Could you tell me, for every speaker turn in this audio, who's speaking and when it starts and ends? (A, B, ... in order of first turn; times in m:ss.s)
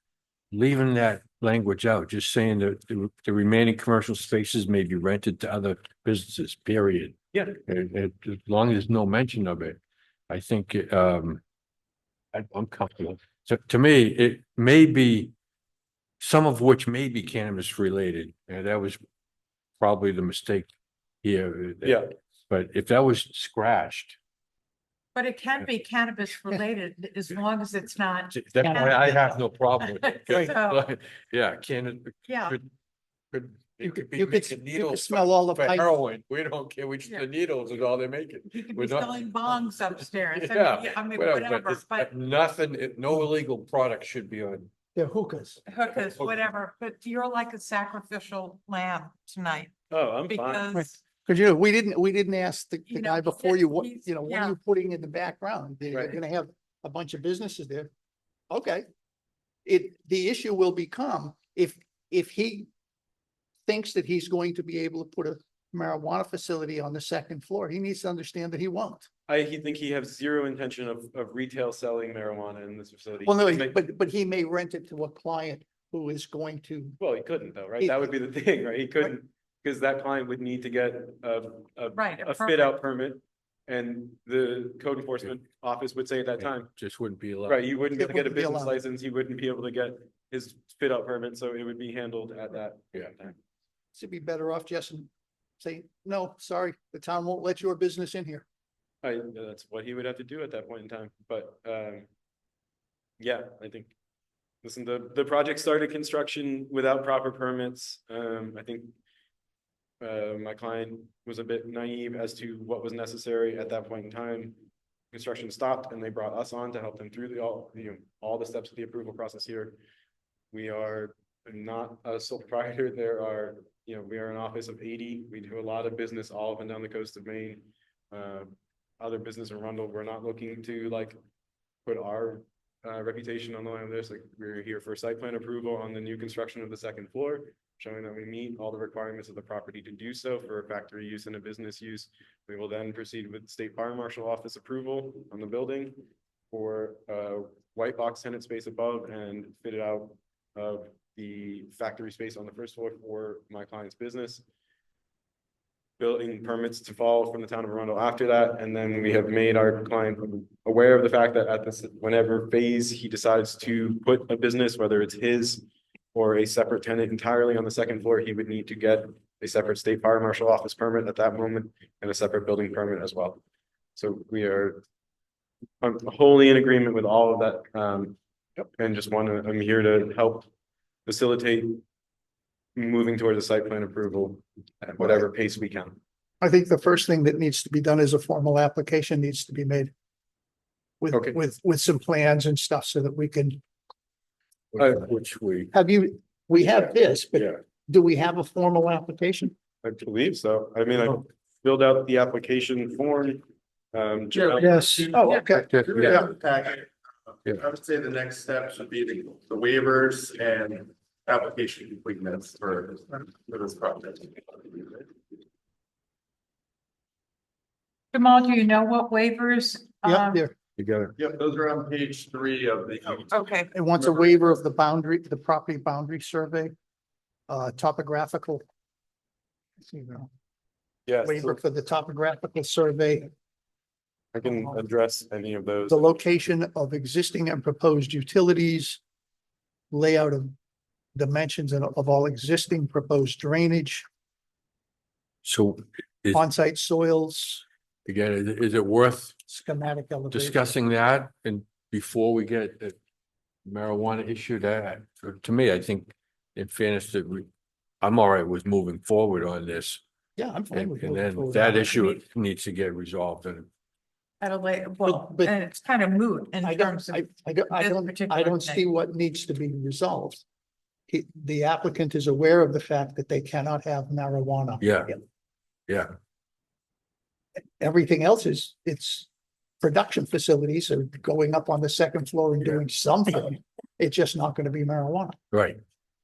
0:00.5-0:09.8 A
0:07.3-0:07.6 B
0:10.3-0:11.4 A
0:12.3-0:15.3 A
0:16.2-0:19.0 A
0:19.8-0:20.7 A
0:21.2-0:24.2 A
0:21.8-0:22.1 B
0:25.1-0:30.8 C
0:28.3-0:32.7 A
0:32.2-0:32.6 C
0:33.3-0:44.7 A
0:33.8-0:35.9 D
0:38.5-0:42.1 C
0:44.9-0:45.6 D
0:45.7-0:49.7 C
0:45.9-0:46.3 A
0:49.9-0:50.7 B
0:50.3-0:50.9 C
0:50.7-0:57.9 D
0:52.9-0:54.6 C
0:58.5-0:58.8 D
0:59.6-1:02.7 D
1:03.6-1:09.1 D
1:09.3-1:13.7 B
1:13.2-1:17.0 D
1:17.0-1:26.7 B
1:17.8-1:18.1 D
1:21.9-1:22.7 C
1:26.4-1:27.6 A
1:27.4-1:33.3 B
1:28.0-1:28.8 D
1:33.9-1:35.1 D
1:35.6-1:38.4 D
1:39.0-1:42.1 B
1:43.2-1:43.9 B
1:44.6-1:48.9 B
1:50.0-1:54.6 B
1:55.1-1:59.8 B
2:00.5-2:11.2 B
2:11.8-2:34.4 B
2:36.0-2:45.6 B
2:46.1-2:53.4 B
2:54.0-2:54.8 B
2:55.8-2:58.2 B
2:58.7-3:00.5 B
3:01.0-3:01.8 B
3:02.8-3:06.0 B
3:06.4-3:09.9 D
3:11.0-3:13.6 D
3:11.1-3:11.4 B
3:14.7-3:15.7 A
3:15.7-3:19.5 D
3:19.8-3:24.8 B
3:24.5-3:26.3 D
3:25.5-3:26.9 E
3:25.6-3:26.1 A
3:27.4-3:35.0 E
3:38.1-3:40.4 C
3:40.0-3:40.5 D
3:40.8-3:41.1 A
3:41.2-3:43.5 E
3:43.3-3:43.7 C
3:43.7-3:46.7 D
3:47.5-3:48.6 D
3:49.8-3:50.3 D
3:51.1-3:51.6 B
3:51.2-3:53.3 D
3:54.3-3:56.1 B
3:54.4-3:54.8 D
3:55.9-3:59.0 D
3:59.9-4:00.6 D
4:01.1-4:04.0 D
4:05.4-4:06.4 A
4:06.3-4:07.6 D
4:08.0-4:09.4 A
4:09.5-4:10.7 D
4:10.3-4:13.0 A
4:13.6-4:17.5 A
4:18.0-4:20.0 A
4:20.4-4:22.2 D
4:20.7-4:23.7 A
4:24.4-4:28.8 C
4:25.0-4:25.6 D
4:26.6-4:30.4 D
4:31.1-4:35.2 D
4:34.8-4:35.1 A
4:35.9-4:36.1 A
4:37.8-4:39.3 D
4:39.8-4:45.4 D
4:45.5-4:45.8 A